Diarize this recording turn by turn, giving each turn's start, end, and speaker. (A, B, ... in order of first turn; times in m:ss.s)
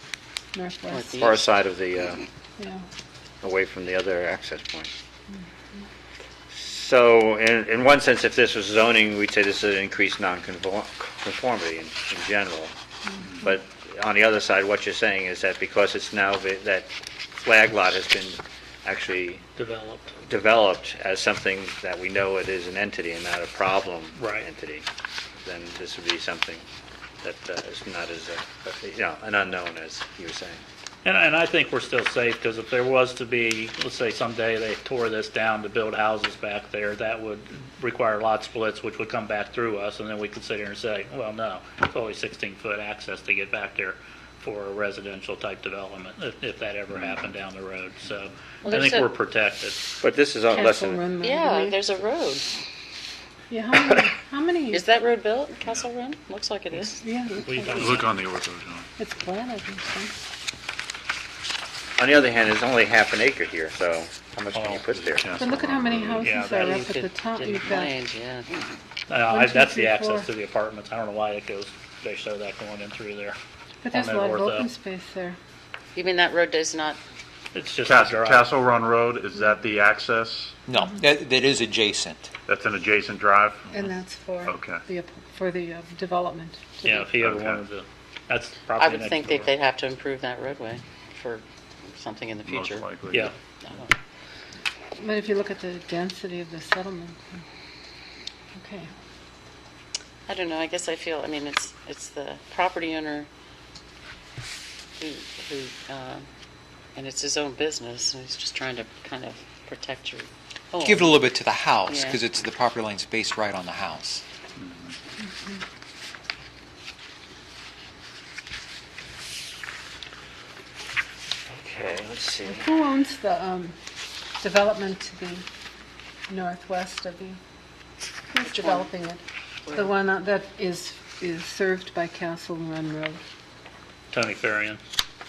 0:00.5-0:01.2 A
0:00.9-0:01.5 B
0:01.1-0:02.3 C
0:02.6-0:02.8 A
0:03.4-0:04.9 C
0:06.5-0:12.7 C
0:13.4-0:19.4 C
0:19.6-0:20.2 D
0:20.2-0:24.8 C
0:24.2-0:24.5 D
0:25.4-0:26.6 C
0:27.2-0:30.6 C
0:31.0-0:49.9 D
0:48.6-0:49.1 B
0:50.0-0:51.0 C
0:50.5-0:51.8 A
0:51.2-0:52.4 B
0:53.5-0:54.8 A
0:54.7-0:57.0 B
0:57.0-0:58.0 A
0:57.5-0:58.1 D
0:57.5-0:58.9 E
0:59.0-1:00.1 A
1:02.0-1:05.4 C
1:04.5-1:04.9 D
1:04.9-1:06.3 E
1:05.4-1:08.0 A
1:06.2-1:06.8 D
1:06.3-1:08.5 B
1:09.1-1:13.4 D
1:09.3-1:10.3 A
1:13.8-1:15.4 A
1:13.9-1:14.7 D
1:15.9-1:17.0 B
1:17.5-1:18.5 D
1:17.8-1:20.6 E
1:20.7-1:22.3 F
1:22.5-1:23.9 E
1:23.7-1:27.1 A
1:24.4-1:24.8 E
1:26.8-1:29.5 D
1:27.2-1:27.6 E
1:28.7-1:32.9 B
1:32.4-1:33.3 E
1:33.6-1:33.9 B
1:35.0-1:37.4 A
1:38.5-1:38.9 A
1:40.3-1:43.3 B
1:45.0-1:46.2 B
1:47.0-1:52.2 B
1:50.8-1:54.2 F
1:54.6-1:54.9 E
2:01.5-2:02.7 C
2:02.4-2:03.8 A
2:04.4-2:05.5 A
2:06.3-2:07.4 A
2:08.3-2:13.2 A
2:08.4-2:08.9 B
2:09.7-2:10.0 B
2:14.1-2:14.8 D